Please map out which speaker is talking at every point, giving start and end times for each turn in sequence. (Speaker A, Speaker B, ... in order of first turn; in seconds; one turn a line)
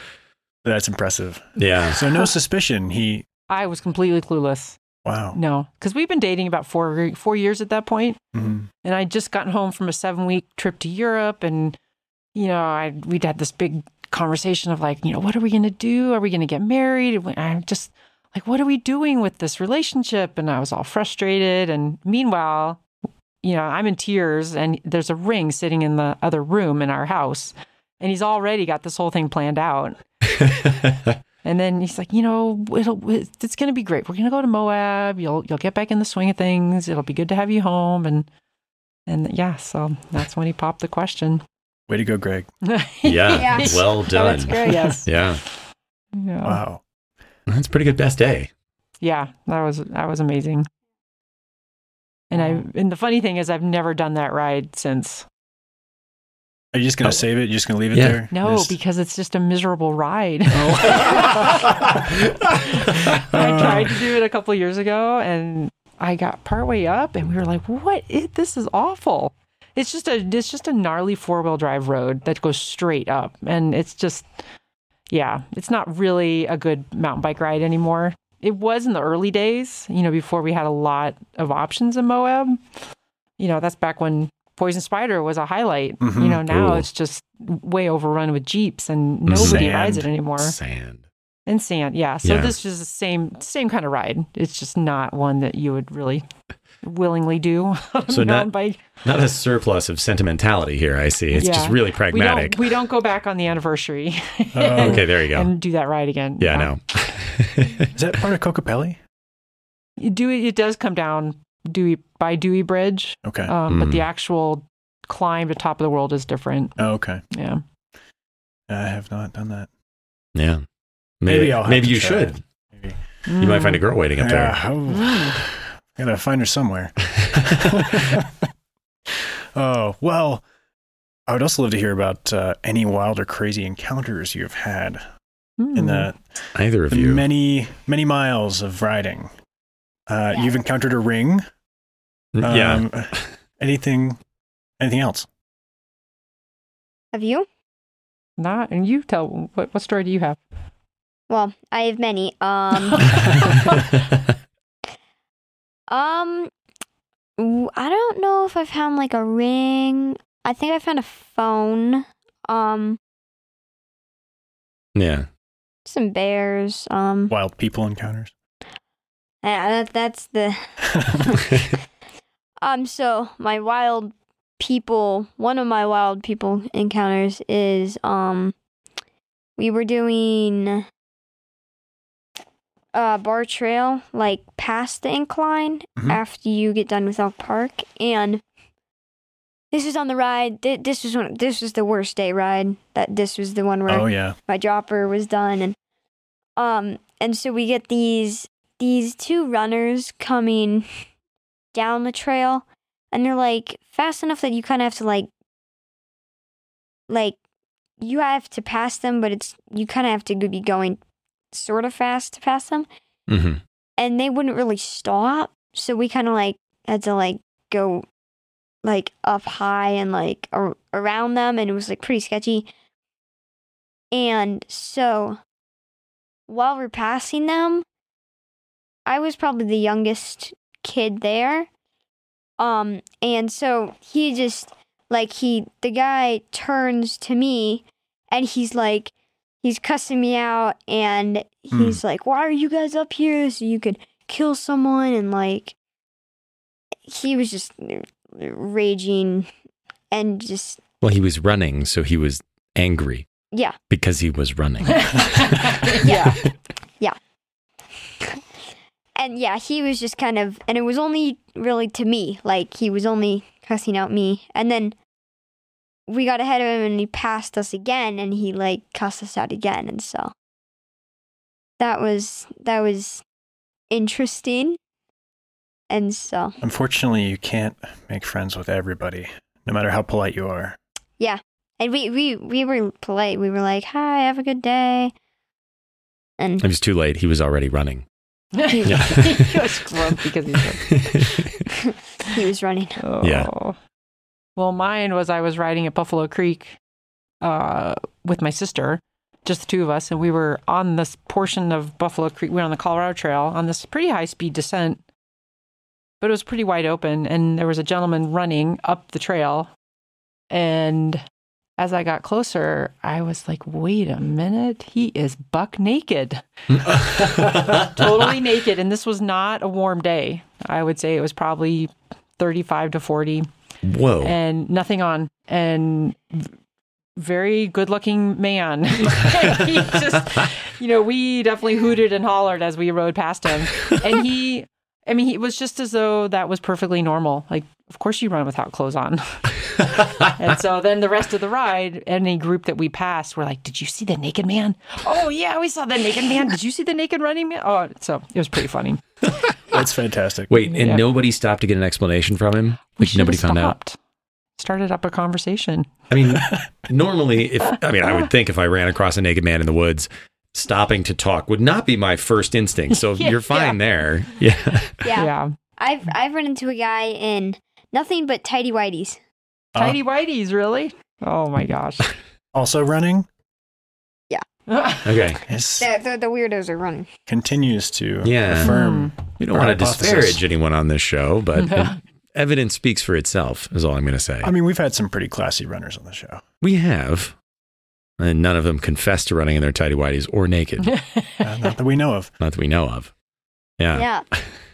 Speaker A: 0.6-3.3
Speaker B: 1.6-2.0
Speaker C: 3.5-4.8
Speaker A: 5.0-5.4
Speaker C: 5.3-8.2
Speaker A: 8.3-8.7
Speaker C: 8.8-11.8
Speaker C: 12.3-22.8
Speaker C: 23.4-30.9
Speaker C: 31.4-38.3
Speaker C: 39.1-41.4
Speaker A: 41.9-42.5
Speaker C: 42.7-45.5
Speaker B: 43.0-45.4
Speaker D: 43.3-45.0
Speaker C: 46.1-46.6
Speaker A: 46.4-46.8
Speaker B: 47.5-48.5
Speaker C: 49.0-50.7
Speaker C: 52.3-55.3
Speaker A: 56.7-58.8
Speaker B: 57.9-58.2
Speaker C: 58.3-74.3
Speaker A: 60.5-61.6
Speaker A: 63.3-64.0
Speaker C: 75.1-82.6
Speaker C: 83.4-90.6
Speaker A: 86.0-86.5
Speaker B: 86.5-86.9
Speaker B: 89.3-89.8
Speaker A: 89.3-90.1
Speaker B: 90.4-91.0
Speaker C: 91.5-96.2
Speaker B: 92.2-92.6
Speaker C: 96.8-98.8
Speaker B: 98.1-98.5
Speaker B: 99.0-102.8
Speaker C: 101.3-106.7
Speaker A: 104.5-105.0
Speaker B: 104.8-105.5
Speaker B: 106.4-107.9
Speaker A: 108.0-109.0
Speaker C: 110.0-117.6
Speaker A: 113.2-113.5
Speaker B: 113.7-114.1
Speaker A: 116.8-117.2
Speaker A: 118.7-119.7
Speaker B: 120.3-120.6
Speaker B: 121.2-122.4
Speaker A: 121.2-123.0
Speaker C: 123.3-123.8
Speaker B: 123.4-124.6
Speaker A: 124.2-128.4
Speaker C: 124.9-125.4
Speaker A: 129.1-130.4
Speaker A: 131.3-135.0
Speaker C: 135.6-136.1
Speaker A: 135.7-139.3
Speaker B: 136.6-137.2
Speaker A: 140.1-141.4
Speaker D: 140.3-140.6
Speaker B: 142.3-143.3
Speaker A: 142.4-144.2
Speaker A: 144.8-145.3
Speaker D: 147.1-147.5
Speaker C: 148.4-150.4
Speaker D: 151.3-153.2
Speaker D: 155.9-156.5
Speaker D: 157.4-163.0
Speaker B: 164.9-165.3
Speaker D: 165.9-167.3
Speaker A: 167.3-168.3
Speaker D: 169.4-171.4
Speaker A: 171.0-171.3
Speaker D: 172.6-178.6
Speaker D: 179.6-180.8
Speaker D: 182.9-188.4
Speaker D: 189.7-195.8
Speaker A: 193.9-194.4
Speaker D: 196.6-200.9
Speaker D: 201.7-205.3
Speaker D: 207.1-207.4
Speaker D: 208.0-211.0
Speaker D: 211.5-212.9
Speaker B: 213.3-213.6
Speaker D: 214.0-218.1
Speaker D: 218.8-222.7
Speaker D: 224.1-225.4
Speaker D: 226.5-227.8
Speaker D: 229.1-231.7
Speaker D: 232.6-245.8
Speaker A: 241.7-242.0
Speaker D: 247.1-249.5
Speaker D: 250.1-250.8
Speaker B: 251.0-253.3
Speaker D: 253.5-253.8
Speaker B: 253.9-256.1
Speaker C: 255.0-256.4
Speaker D: 256.0-256.4
Speaker D: 259.2-265.0
Speaker D: 266.1-270.3
Speaker D: 271.8-273.2
Speaker D: 273.9-274.8
Speaker D: 275.9-276.6
Speaker A: 276.6-280.8
Speaker D: 281.2-285.1
Speaker D: 286.4-286.6
Speaker B: 286.6-288.1
Speaker C: 288.6-291.3
Speaker D: 288.7-289.2
Speaker B: 288.8-289.8
Speaker B: 290.8-291.6
Speaker D: 292.2-293.0
Speaker C: 293.0-293.8
Speaker B: 293.2-293.5
Speaker C: 294.6-296.8
Speaker C: 297.4-305.0
Speaker C: 306.2-309.7
Speaker C: 310.5-311.2
Speaker C: 311.8-323.5
Speaker B: 316.7-318.2
Speaker B: 323.8-324.4
Speaker C: 324.2-326.5
Speaker C: 327.2-349.0
Speaker A: 349.7-350.5
Speaker B: 350.5-353.8
Speaker C: 350.7-351.1
Speaker C: 353.0-354.0
Speaker C: 354.6-355.9
Speaker B: 356.1-365.0
Speaker A: 356.3-356.6
Speaker C: 363.0-363.8
Speaker D: 365.0-369.2
Speaker C: 365.1-365.6
Speaker A: 369.7-370.0
Speaker C: 369.8-372.1
Speaker A: 372.5-373.3
Speaker C: 374.7-375.2
Speaker B: 375.0-375.4
Speaker A: 375.4-375.9
Speaker D: 375.8-377.1
Speaker A: 377.3-380.4
Speaker B: 378.2-384.5
Speaker C: 378.6-379.1
Speaker C: 381.6-382.0
Speaker A: 384.4-386.4
Speaker B: 386.6-387.4
Speaker B: 388.2-390.9
Speaker C: 390.8-391.5
Speaker A: 391.4-392.3
Speaker B: 392.4-393.1
Speaker B: 393.8-394.5
Speaker D: 393.9-394.2